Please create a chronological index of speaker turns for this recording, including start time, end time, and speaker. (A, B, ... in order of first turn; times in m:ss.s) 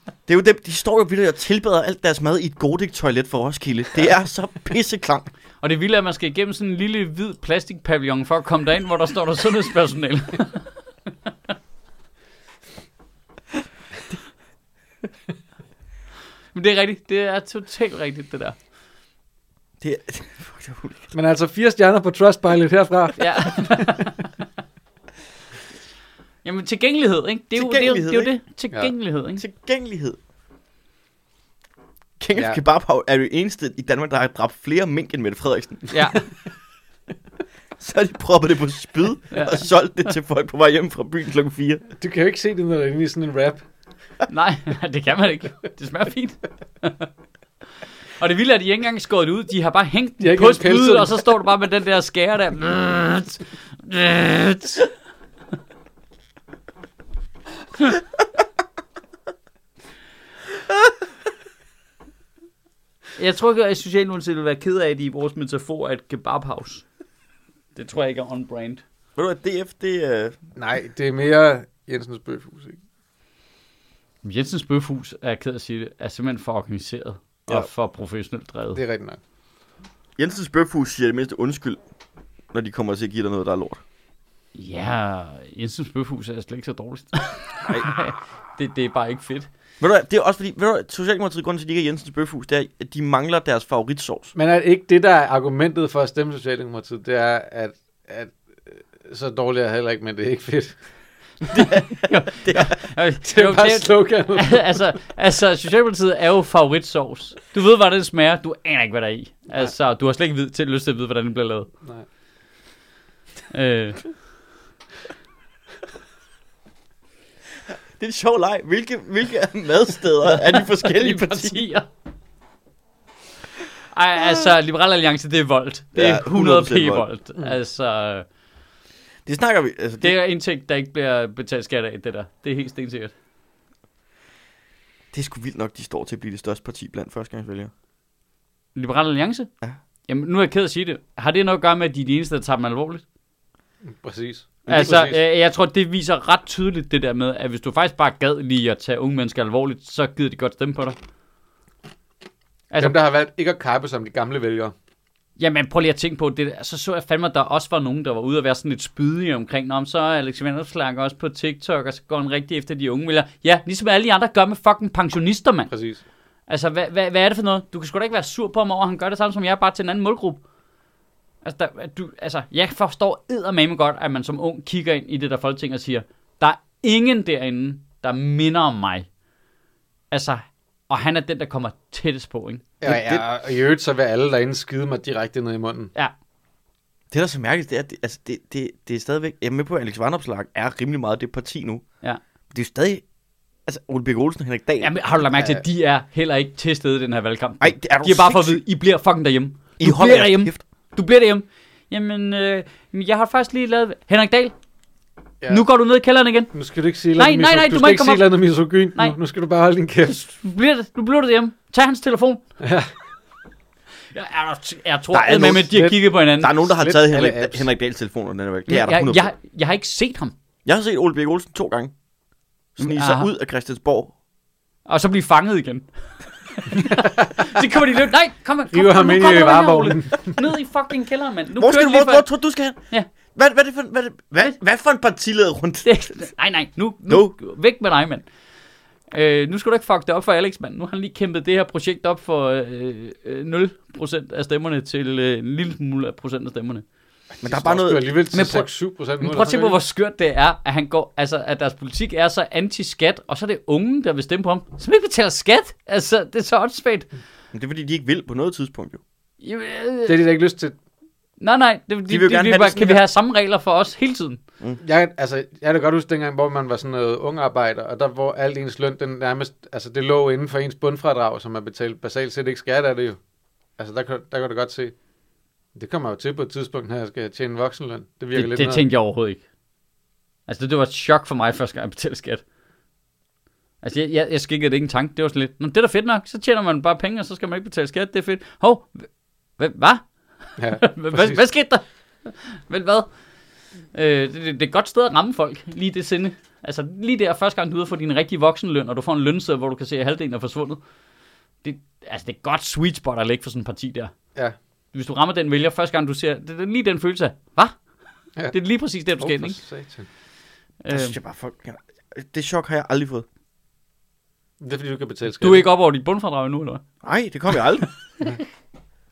0:00.3-0:05.3 A
0:05.6-0:10.7 B
0:16.5-0:18.6 B
0:19.8-0:21.1 A
0:21.1-0:24.0 C
0:23.2-0:24.3 B
0:26.4-0:29.4 B
0:27.6-0:28.3 A
0:29.4-0:30.2 A
0:32.2-0:35.9 A
0:35.9-0:36.2 B
0:37.8-0:41.8 A
0:39.3-0:39.6 B
0:42.0-0:43.6 C
0:44.3-0:47.1 B
0:48.2-0:54.9 B
0:50.2-0:51.2 C
1:03.2-1:06.8 B
1:07.7-1:08.8 B
1:09.2-1:10.4 A
1:10.6-1:12.8 C
1:14.2-1:18.8 B
1:18.7-1:19.2 C
1:20.2-1:21.8 A
1:22.5-1:23.8 A
1:24.5-1:29.5 B
1:27.6-1:28.0 A
1:29.8-1:34.3 A
1:34.3-1:40.8 C
1:41.4-1:51.7 B
1:41.5-1:42.8 A
1:43.2-1:44.8 C
1:53.5-1:54.0 B
1:58.0-2:01.6 A
2:00.3-2:01.8 B
2:03.9-2:08.2 B
2:05.9-2:07.1 A
2:09.2-2:10.2 A
2:10.0-2:13.1 B
2:15.1-2:17.7 A
2:18.7-2:19.5 B
2:20.1-2:23.0 B
2:23.8-2:25.2 C
2:24.7-2:25.0 A
2:24.7-2:31.0 B
2:32.7-2:33.0 B
2:32.8-2:34.7 C
2:35.4-2:45.7 B
2:45.7-2:46.0 C
2:46.5-2:50.4 B
2:51.4-2:59.1 B
3:00.1-3:02.7 B
3:02.8-3:05.9 C
3:02.8-3:03.2 A
3:07.1-3:11.8 A
3:12.5-3:13.0 A
3:13.6-3:14.9 A
3:14.8-3:24.5 B
3:15.3-3:15.6 C
3:17.6-3:18.6 A
3:19.8-3:20.6 A
3:25.5-3:26.5 B
3:26.5-3:30.2 C
3:27.2-3:28.3 B
3:30.0-3:32.4 B
3:32.6-3:32.9 C
3:34.1-3:36.5 B
3:35.1-3:35.7 A
3:35.4-3:36.0 C
3:36.4-3:39.3 A
3:36.6-3:37.6 C
3:38.7-3:40.3 B
3:40.6-3:41.9 A
3:42.8-3:44.1 A
3:42.8-3:43.3 B
3:44.8-3:45.9 B
3:46.5-3:52.2 B
3:48.7-3:50.4 C
3:51.6-3:52.8 A
3:53.3-3:56.1 A
3:55.8-3:58.2 B
3:57.1-3:57.3 A
3:59.1-4:06.8 B
4:07.4-4:09.8 C
4:07.4-4:08.0 A
4:08.3-4:08.7 B
4:09.2-4:17.1 B
4:17.5-4:19.0 A
4:19.4-4:20.2 B
4:20.0-4:20.8 C
4:21.4-4:24.4 B
4:22.1-4:23.0 A
4:24.8-4:33.2 C
4:33.8-4:34.9 C
4:35.7-4:38.8 C
4:38.3-4:39.4 B
4:40.5-4:42.4 B
4:43.8-4:53.1 B
4:50.6-4:51.4 C
4:53.9-5:00.8 B
5:01.6-5:04.1 B
5:04.9-5:07.8 B
5:08.5-5:09.6 B
5:09.2-5:10.1 C
5:10.8-5:11.2 B
5:10.9-5:13.2 A
5:14.6-5:15.7 C
5:15.4-5:16.8 B
5:17.0-5:17.9 A